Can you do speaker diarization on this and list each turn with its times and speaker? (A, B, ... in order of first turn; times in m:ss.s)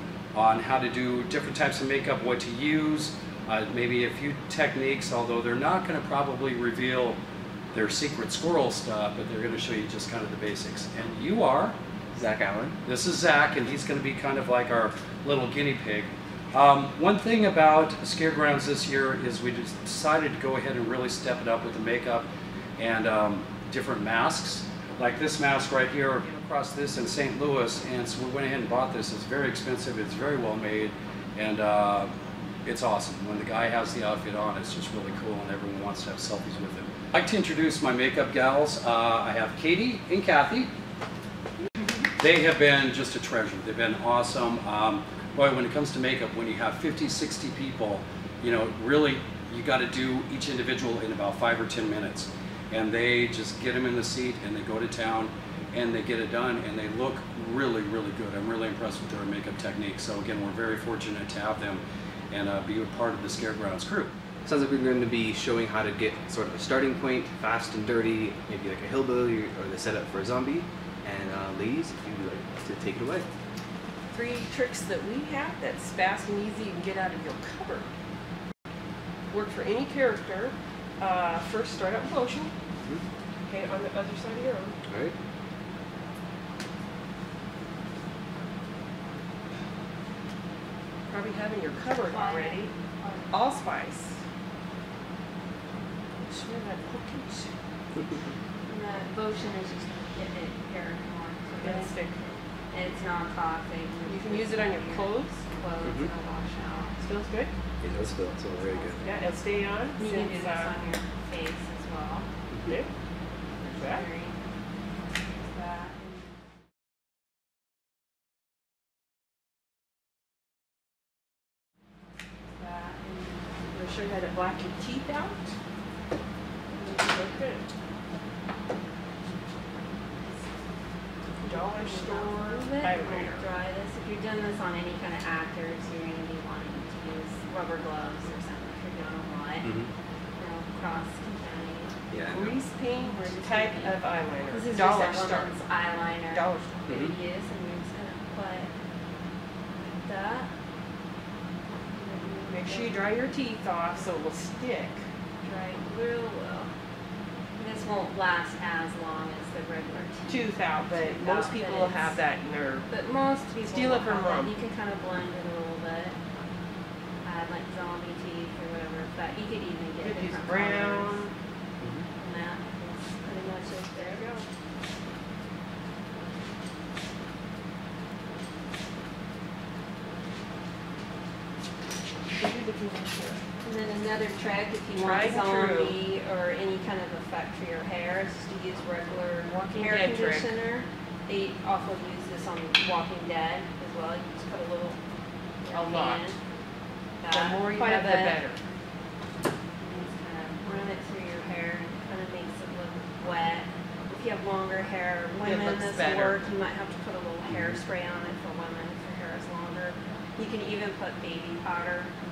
0:00.3-0:07.2 A
0:07.7-0:11.8 A
0:12.2-0:12.8 B
0:12.8-0:22.3 A
0:22.8-0:32.1 A
0:32.6-0:40.7 A
0:42.1-1:04.1 A
1:04.4-1:13.3 B
1:14.1-1:17.9 C
1:19.3-1:22.5 C
1:23.5-1:24.8 C
1:24.9-1:25.1 B
1:31.1-1:32.7 C
1:32.0-1:33.3 D
1:33.3-1:34.2 C
1:36.3-1:37.5 C
1:38.7-1:41.9 D
1:41.6-1:42.2 C
1:42.7-1:47.0 D
1:44.1-1:45.4 C
1:45.8-1:46.1 B
1:47.0-1:47.5 C
1:47.8-1:49.1 B
1:48.6-1:49.4 D
1:49.0-1:50.8 C
1:50.0-1:52.3 D
1:53.6-1:54.1 C
1:53.8-1:54.4 D
1:55.5-1:56.4 D
2:02.7-2:03.4 D
2:03.6-2:05.6 C
2:06.7-2:07.6 C
2:06.9-2:07.2 D
2:11.4-2:13.4 C
2:11.5-2:19.7 D
2:19.6-2:19.9 B
2:20.4-2:22.0 D
2:22.1-2:22.6 B
2:22.3-2:25.6 C
2:23.0-2:28.7 D
2:26.3-2:27.0 C
2:29.8-2:30.5 D
2:31.9-2:33.0 D
2:32.5-2:35.0 C
2:35.4-2:36.7 D
2:37.6-2:42.2 D
2:40.3-2:42.9 C
2:42.9-2:46.2 D
2:43.6-2:44.6 C
2:47.2-2:51.2 D
2:50.0-2:51.3 C
2:52.2-2:54.2 D
2:54.0-2:54.5 C
3:02.3-3:03.4 C
3:03.6-3:15.0 D
3:04.9-3:06.0 C
3:09.5-3:10.5 C
3:15.6-3:16.4 D
3:15.7-3:16.3 C
3:17.2-3:18.4 D
3:17.3-3:18.6 C
3:19.8-3:32.1 D
3:25.4-3:26.4 C
3:27.5-3:27.8 B